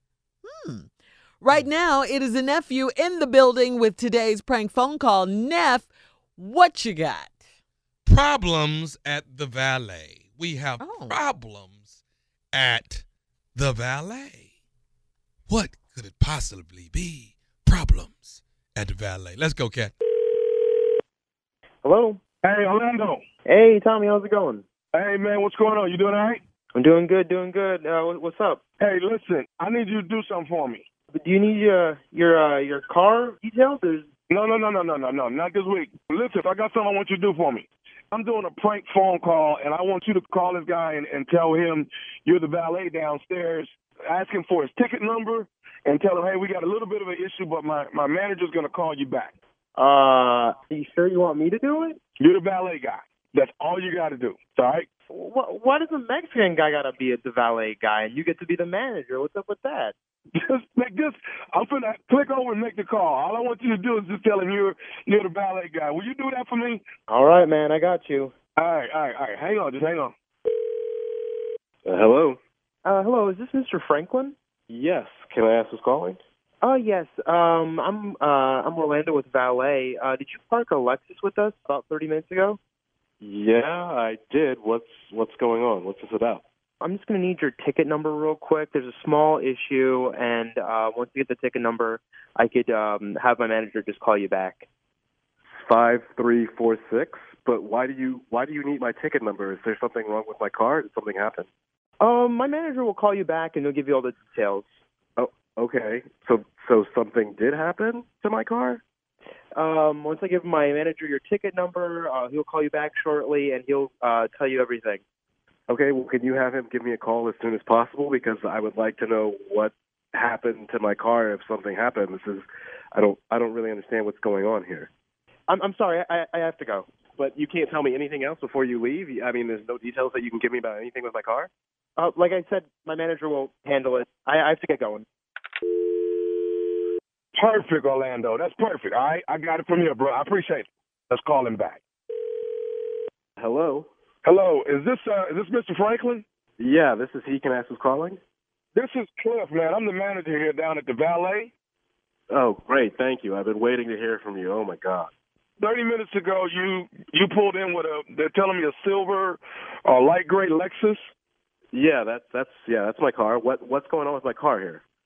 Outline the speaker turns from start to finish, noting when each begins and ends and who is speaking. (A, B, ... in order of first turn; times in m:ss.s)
0:00.4-0:00.9 A
0:01.4-0:07.3 A
0:08.0-0:12.0 B
0:10.8-0:11.2 A
0:12.5-0:13.0 B
0:13.5-0:14.4 B
0:15.5-0:19.9 B
0:21.8-0:22.2 C
0:22.4-0:23.2 D
0:23.4-0:24.6 C
0:24.9-0:26.4 D
0:26.7-0:28.6 C
0:28.8-0:30.8 D
0:31.1-0:34.0 C
0:34.3-0:49.3 D
0:49.8-0:52.0 C
0:52.2-0:54.9 D
0:55.1-0:59.9 C
1:00.4-1:06.8 D
1:07.1-1:08.3 C
1:08.6-1:10.1 D
1:11.8-1:12.4 E
1:12.8-1:14.3 C
1:14.7-1:16.2 E
1:16.6-1:22.6 C
1:23.2-1:26.4 E
1:26.8-1:34.7 C
1:35.5-1:41.5 E
1:42.0-1:44.8 C
1:45.2-1:48.8 E
1:49.6-1:55.0 C
1:55.7-2:04.9 E
2:05.5-2:06.8 C
2:07.2-2:11.5 E
2:12.0-2:15.0 C
2:17.3-2:21.8 D
2:23.4-2:23.9 E
2:24.2-2:26.2 D
2:26.6-2:28.2 E
2:28.7-2:31.5 D
2:32.3-2:35.1 E
2:35.6-2:41.0 D
2:41.7-2:44.8 E